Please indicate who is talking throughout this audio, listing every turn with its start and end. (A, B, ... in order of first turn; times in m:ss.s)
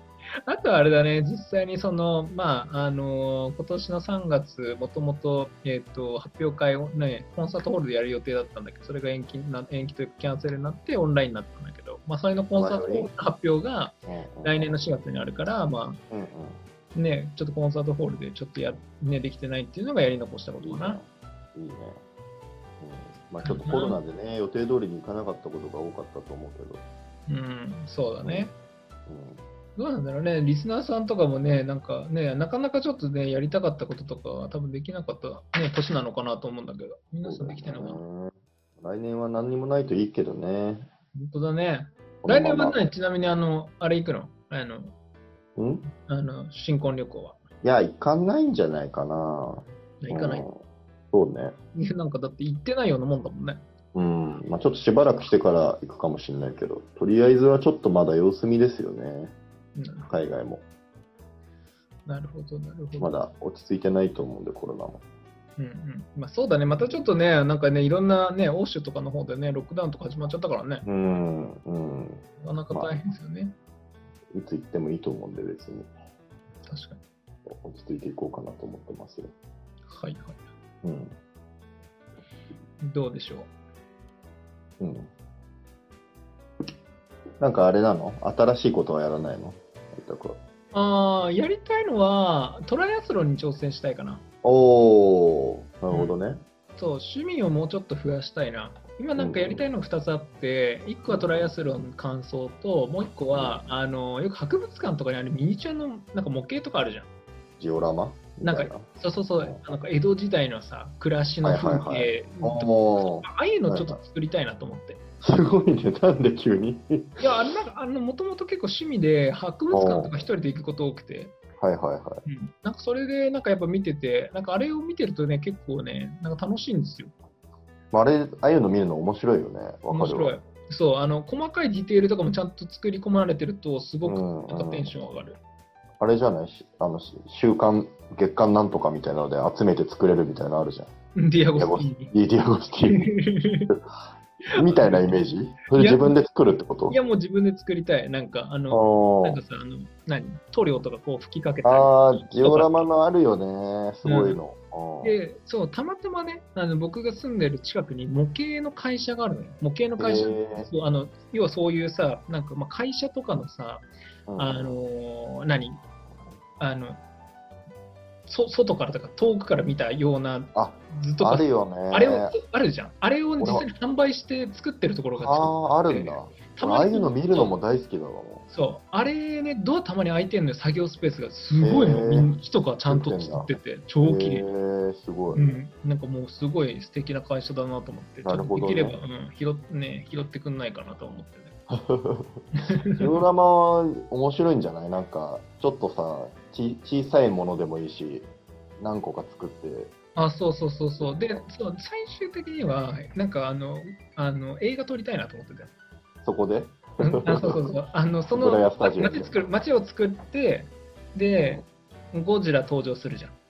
0:00.5-0:16.0 A
0:12.5-0:13.1 B
0:14.0-0:14.9 B
0:16.1-0:16.6 B
0:16.9-0:21.0 A
0:20.6-0:22.0 B
0:22.8-0:26.8 B
0:23.4-0:24.0 A
0:27.3-0:28.5 A
0:28.2-0:28.5 B
0:29.1-0:29.4 B
0:29.8-0:38.0 A
0:37.2-0:40.9 B
0:41.1-0:44.9 A
0:42.2-0:42.8 B
0:45.6-0:45.8 B
0:46.0-0:47.4 A
0:47.6-0:50.5 B
0:50.0-0:50.4 A
0:51.1-0:51.5 B
0:51.7-0:53.6 A
0:53.9-0:59.3 B
0:59.8-1:00.1 A
1:00.1-1:00.6 B
1:02.1-1:03.1 A
1:03.0-1:05.0 B
1:05.6-1:10.8 A
1:10.8-1:13.0 B
1:12.4-1:13.5 A
1:14.3-1:15.9 B
1:16.7-1:17.0 A
1:17.5-1:19.3 B
1:19.9-1:20.4 A
1:20.8-1:21.1 B
1:22.8-1:23.5 A
1:24.8-1:25.1 B
1:27.4-1:30.4 B
1:30.7-1:34.2 A
1:34.4-1:36.4 B
1:35.9-1:36.2 A
1:36.8-1:47.1 A
1:39.2-1:39.6 B
1:41.1-1:41.5 B
1:43.3-1:43.6 B
1:47.6-1:48.9 B
1:48.4-1:55.0 A
1:51.4-1:54.0 B
1:55.2-1:57.3 B
1:57.2-2:01.3 A
1:59.7-2:00.2 B
2:01.6-2:02.2 B
2:02.2-2:07.1 A
2:07.9-2:10.3 B
2:09.9-2:15.4 A
2:14.0-2:14.9 B
2:16.0-2:20.9 B
2:21.2-2:22.1 A
2:21.5-2:23.1 B
2:22.9-2:23.7 A
2:24.5-2:27.0 B
2:24.6-2:25.2 A
2:25.8-2:26.1 A
2:26.9-2:32.8 A
2:28.7-2:29.4 B
2:31.6-2:35.2 B
2:34.0-2:34.4 A
2:35.0-2:43.8 A
2:40.0-2:40.7 B
2:44.3-2:44.8 B
2:44.4-2:45.8 A
2:46.6-2:47.0 A
2:48.3-2:57.5 A
2:50.5-2:52.4 B
2:53.4-2:53.6 B
2:55.2-2:58.4 B
2:58.5-3:04.5 A
3:01.6-3:02.3 B
3:02.8-3:03.5 B
3:04.0-3:05.6 B
3:05.3-3:11.5 A
3:08.2-3:09.0 B
3:11.7-3:19.9 B
3:12.5-3:13.0 A
3:20.2-3:25.7 A
3:26.2-3:27.6 B
3:27.0-3:33.3 A
3:28.3-3:29.4 B
3:31.4-3:31.6 B